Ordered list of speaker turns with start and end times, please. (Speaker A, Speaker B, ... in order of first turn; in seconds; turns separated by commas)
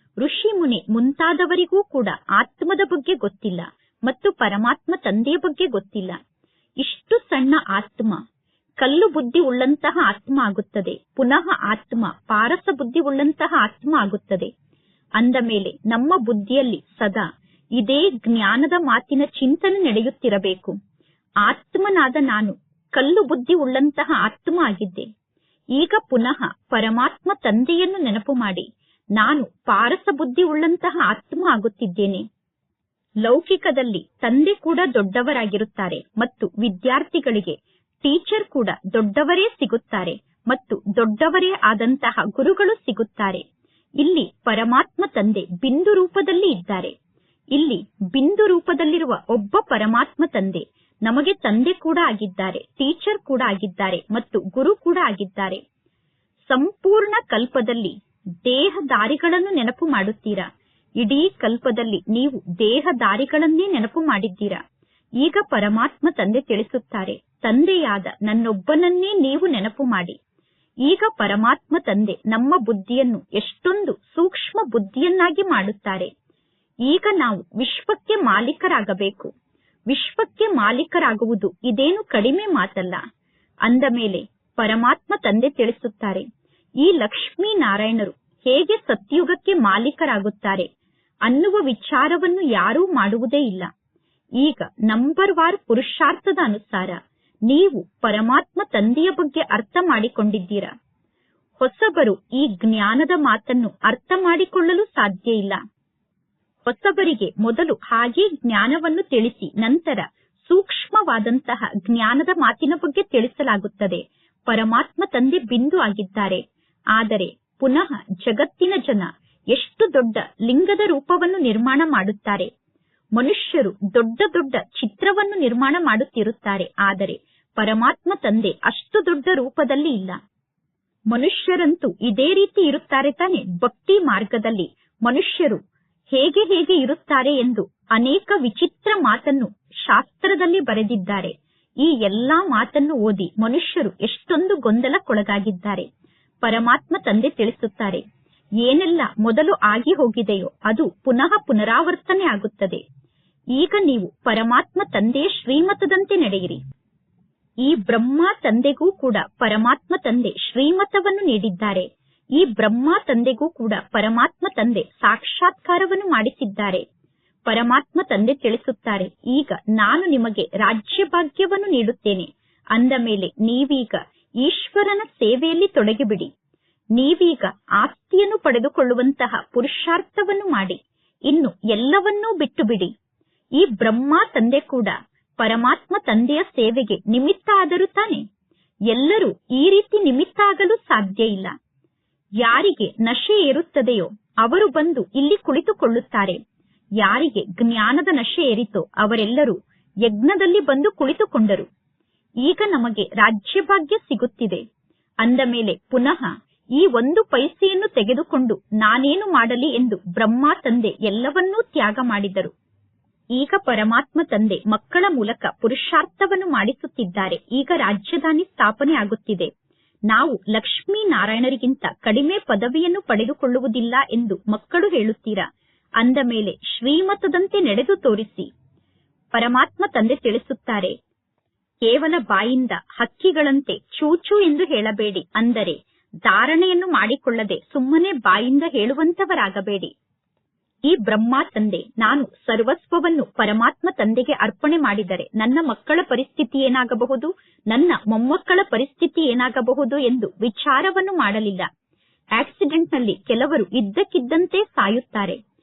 Speaker A: 0.2-6.2, Speaker A: 6.8-8.2, Speaker A: 8.8-14.5, Speaker A: 15.2-17.2, Speaker A: 17.8-20.7, Speaker A: 21.4-25.1, Speaker A: 25.7-28.6, Speaker A: 29.2-32.2, Speaker A: 33.2-43.4, Speaker A: 44.0-46.9, Speaker A: 47.5-55.6, Speaker A: 56.5-57.9, Speaker A: 58.4-60.5, Speaker A: 61.0-64.6, Speaker A: 65.2-70.2, Speaker A: 70.8-76.1, Speaker A: 76.9-79.3, Speaker A: 79.9-83.0, Speaker A: 83.7-86.2, Speaker A: 86.8-90.7, Speaker A: 91.3-93.7, Speaker A: 94.4-100.7, Speaker A: 101.6-105.6, Speaker A: 106.6-116.4, Speaker A: 116.9-122.5, Speaker A: 123.2-130.2, Speaker A: 131.1-135.6, Speaker A: 136.1-145.8, Speaker A: 146.4-148.0, Speaker A: 148.6-152.8, Speaker A: 153.6-156.6, Speaker A: 157.6-166.8, Speaker A: 167.5-176.3, Speaker A: 176.9-182.9, Speaker A: 183.6-188.2, Speaker A: 188.9-191.5, Speaker A: 192.4-196.4, Speaker A: 197.0-201.7, Speaker A: 202.4-204.6, Speaker A: 205.2-212.5, Speaker A: 213.3-219.5, Speaker A: 220.1-225.4, Speaker A: 226.0-228.5, Speaker A: 229.3-230.9, Speaker A: 231.8-239.9, Speaker A: 240.9-251.7, Speaker A: 252.4-255.4